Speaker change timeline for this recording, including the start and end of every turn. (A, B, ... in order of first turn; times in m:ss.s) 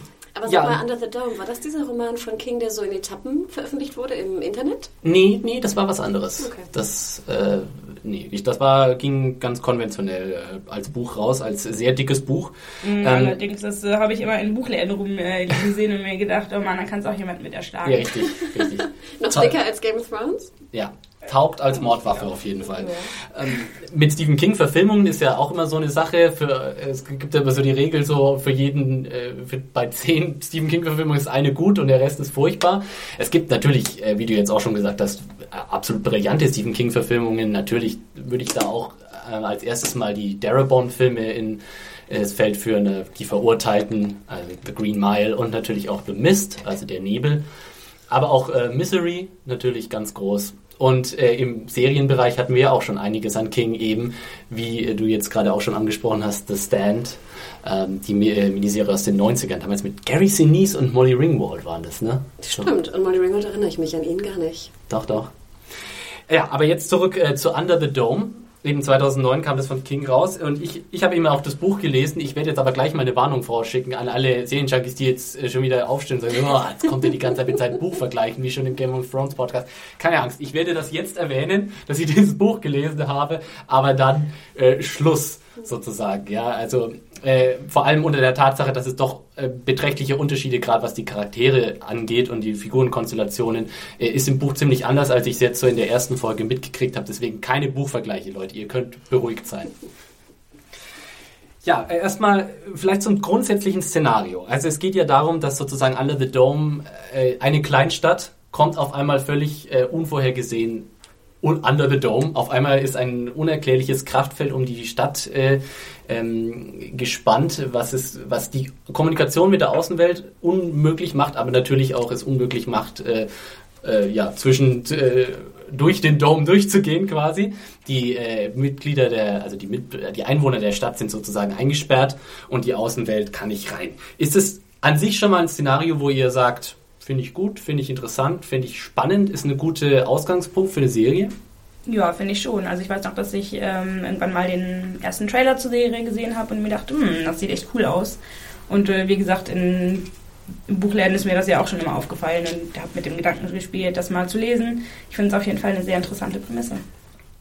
0:00.4-0:04.9 A
0:00.5-0:00.8 B
0:05.0-0:13.4 B
0:06.4-0:06.7 A
0:12.8-0:18.2 C
0:17.8-0:19.5 B
0:19.2-0:20.5 A
0:20.7-0:47.4 B
0:22.7-0:23.1 C
0:48.1-1:02.7 B
1:02.4-1:04.7 A
1:04.9-1:05.3 B
1:06.3-1:39.8 B
1:41.6-1:50.9 B
1:51.4-2:03.3 B
2:03.8-2:21.3 B
2:21.9-2:28.2 C
2:28.7-2:30.1 C
2:30.7-2:36.8 C